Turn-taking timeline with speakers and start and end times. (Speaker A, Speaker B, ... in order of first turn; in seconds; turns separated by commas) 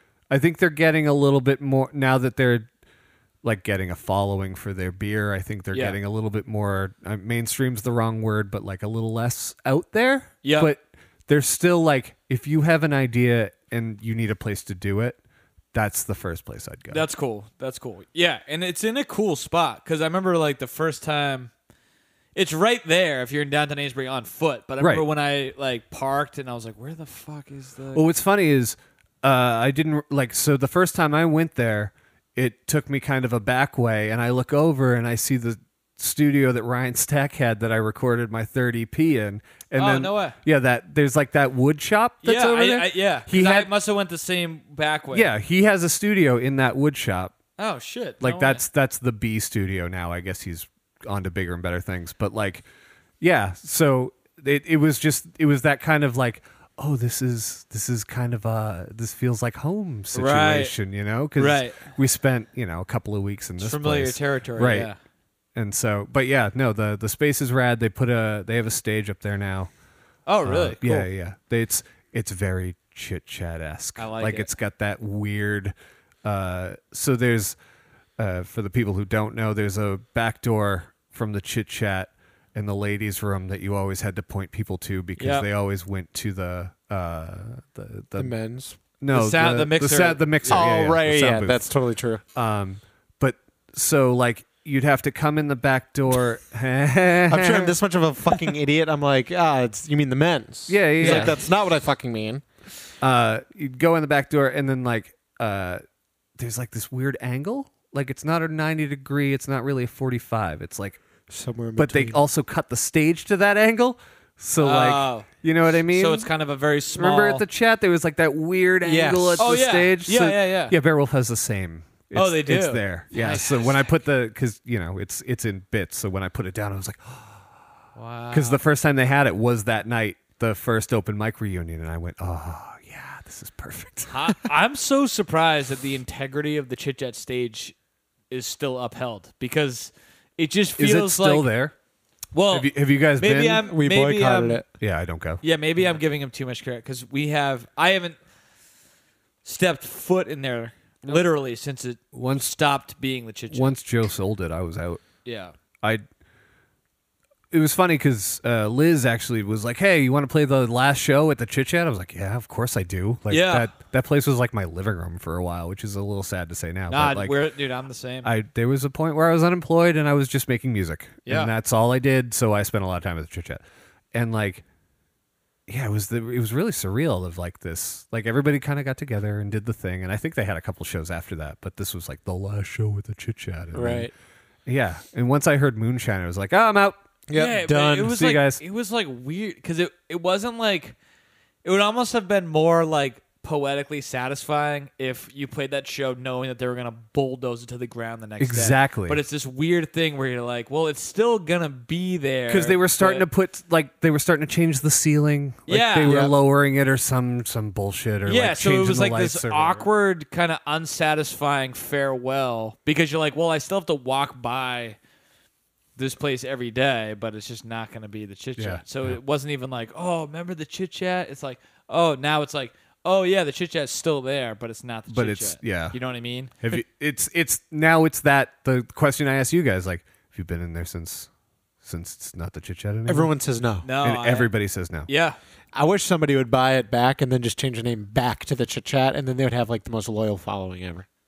Speaker A: 0.3-2.7, Speaker A: 3.4-15.2, Speaker B: 5.7-6.0, Speaker B: 10.4-10.7, Speaker A: 15.7-17.0, Speaker B: 16.9-21.5, Speaker B: 22.3-28.0, Speaker A: 27.9-43.7, Speaker B: 39.8-40.4, Speaker B: 42.2-45.3, Speaker A: 45.1-47.4, Speaker B: 47.6-48.6, Speaker A: 48.2-52.6, Speaker A: 53.2-64.9, Speaker B: 60.1-60.7, Speaker B: 61.4-61.9, Speaker B: 63.6-65.0, Speaker A: 65.5-69.7, Speaker B: 70.3-71.1, Speaker A: 70.4-75.7, Speaker B: 74.0-74.5, Speaker A: 76.2-77.5, Speaker A: 78.2-88.4, Speaker B: 85.2-85.5, Speaker C: 88.2-88.8, Speaker A: 89.0-91.7, Speaker B: 89.1-90.7, Speaker C: 90.5-92.2, Speaker A: 92.3-97.7, Speaker C: 97.3-102.4, Speaker A: 100.7-101.4, Speaker B: 101.0-101.3, Speaker A: 103.0-105.8, Speaker A: 106.4-111.0, Speaker C: 111.3-112.2, Speaker A: 111.8-116.3, Speaker B: 114.6-115.3, Speaker B: 115.9-117.4, Speaker A: 116.9-127.4, Speaker C: 118.8-119.5, Speaker B: 119.4-120.7, Speaker B: 122.1-123.8, Speaker B: 128.0-128.6, Speaker A: 128.3-134.4, Speaker B: 134.1-137.7, Speaker B: 138.3-141.5, Speaker A: 140.8-141.7, Speaker B: 142.3-144.6, Speaker A: 142.5-143.7, Speaker C: 143.6-144.7, Speaker A: 144.8-145.4, Speaker B: 145.4-148.2, Speaker B: 149.4-153.8, Speaker A: 152.1-152.5, Speaker A: 153.5-155.0, Speaker B: 155.2-155.5, Speaker A: 157.5-167.3, Speaker B: 163.3-163.7, Speaker B: 166.9-168.3, Speaker A: 168.2-173.6, Speaker B: 171.2-171.5, Speaker A: 174.1-174.6, Speaker A: 175.7-184.1, Speaker C: 183.7-184.1, Speaker A: 184.7-187.0, Speaker C: 187.3-188.1, Speaker B: 187.3-190.9, Speaker A: 187.7-188.6, Speaker B: 191.6-203.2, Speaker A: 198.4-199.2, Speaker A: 202.5-209.8, Speaker B: 205.7-206.2, Speaker C: 206.0-206.3, Speaker B: 208.2-215.0, Speaker B: 216.0-226.5, Speaker A: 218.6-219.2, Speaker A: 225.1-226.0, Speaker A: 226.6-231.3, Speaker A: 231.8-233.3, Speaker C: 233.1-233.9, Speaker B: 233.8-234.5, Speaker A: 234.0-235.1, Speaker B: 235.1-235.4, Speaker C: 235.7-241.1